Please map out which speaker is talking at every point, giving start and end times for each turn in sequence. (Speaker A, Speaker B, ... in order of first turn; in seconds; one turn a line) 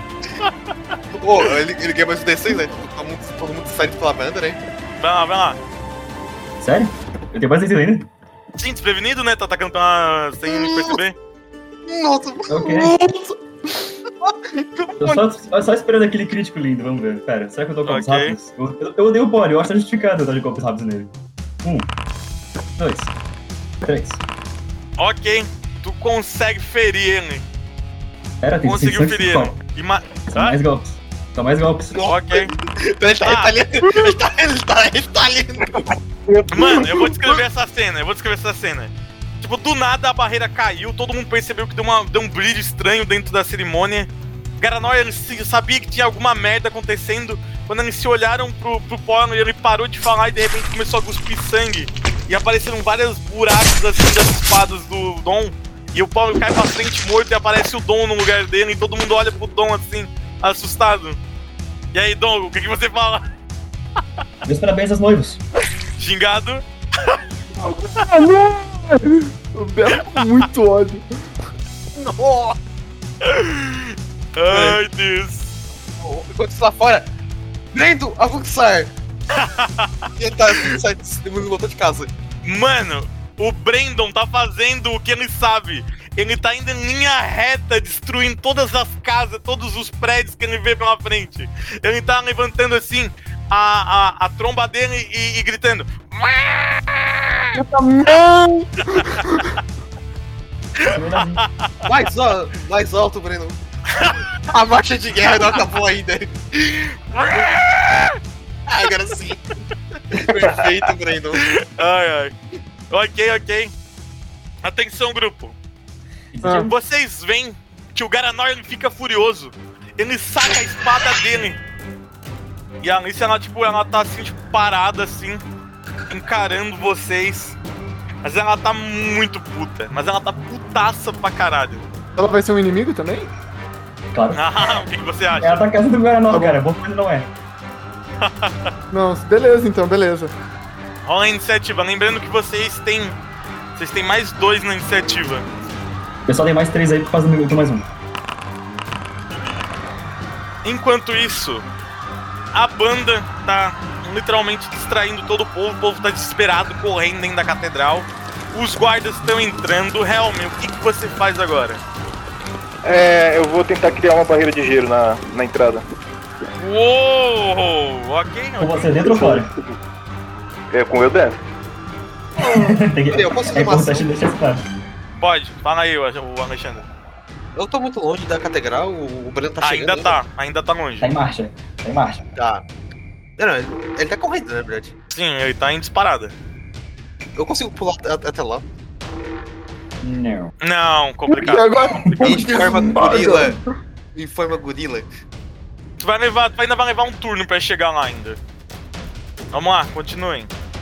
Speaker A: 0.4-1.5
Speaker B: 1.1-4.6
Speaker A: 5.0-5.6
Speaker C: 6.6-8.1
Speaker A: 8.6-11.2
Speaker B: 10.5-11.0
Speaker B: 11.8-13.3
Speaker C: 12.5-12.9
Speaker B: 14.2-15.2
Speaker C: 15.0-21.1
Speaker A: 17.9-18.4
Speaker C: 21.6-21.9
Speaker C: 22.8-23.1
Speaker C: 23.9-24.2
Speaker A: 25.0-27.4
Speaker C: 28.4-29.6
Speaker A: 28.6-30.6
Speaker C: 30.3-32.0
Speaker B: 31.9-35.9
Speaker A: 32.1-32.5
Speaker A: 33.2-33.6
Speaker D: 36.3-36.8
Speaker A: 36.5-61.2
Speaker A: 61.9-63.2
Speaker C: 64.5-65.4
Speaker A: 66.0-67.2
Speaker E: 67.6-71.0
Speaker A: 70.0-70.3
Speaker B: 72.0-72.6
Speaker A: 73.2-75.5
Speaker B: 74.5-74.8
Speaker B: 75.9-77.1
Speaker B: 77.7-78.9
Speaker A: 79.3-80.8
Speaker B: 80.2-82.1
Speaker A: 82.4-97.3
Speaker E: 97.5-99.5
Speaker A: 99.0-99.3
Speaker A: 100.8-101.7
Speaker C: 100.9-101.4
Speaker B: 101.9-107.6
Speaker A: 104.0-104.2
Speaker A: 107.3-108.1
Speaker B: 108.7-109.4
Speaker B: 110.1-111.4
Speaker A: 111.4-112.3
Speaker A: 112.9-113.7
Speaker A: 114.6-115.6
Speaker C: 116.3-116.7
Speaker E: 116.4-116.7
Speaker A: 116.6-121.6
Speaker A: 122.8-125.4
Speaker A: 126.1-127.6
Speaker A: 128.2-131.8
Speaker E: 132.2-133.3
Speaker C: 134.1-134.8
Speaker A: 134.3-135.6
Speaker C: 135.4-137.3
Speaker E: 136.3-136.6
Speaker A: 138.2-138.7
Speaker E: 138.9-140.3
Speaker A: 141.0-143.2
Speaker A: 143.8-145.5
Speaker C: 146.3-147.9
Speaker A: 150.7-151.7
Speaker A: 152.5-161.8
Speaker D: 162.8-165.8
Speaker A: 166.6-169.2
Speaker C: 168.6-169.5
Speaker D: 169.1-169.5
Speaker D: 170.7-171.4
Speaker B: 172.4-174.1
Speaker C: 172.4-174.6
Speaker A: 175.2-176.9
Speaker B: 177.6-180.2
Speaker A: 179.6-181.1
Speaker C: 181.0-182.2
Speaker B: 182.4-182.6
Speaker B: 183.4-184.9
Speaker A: 185.1-186.3
Speaker B: 187.4-188.7
Speaker C: 190.0-190.5
Speaker A: 190.6-191.7
Speaker E: 191.3-193.6
Speaker B: 192.2-193.6
Speaker B: 194.1-195.1
Speaker A: 196.0-198.4
Speaker A: 199.5-200.5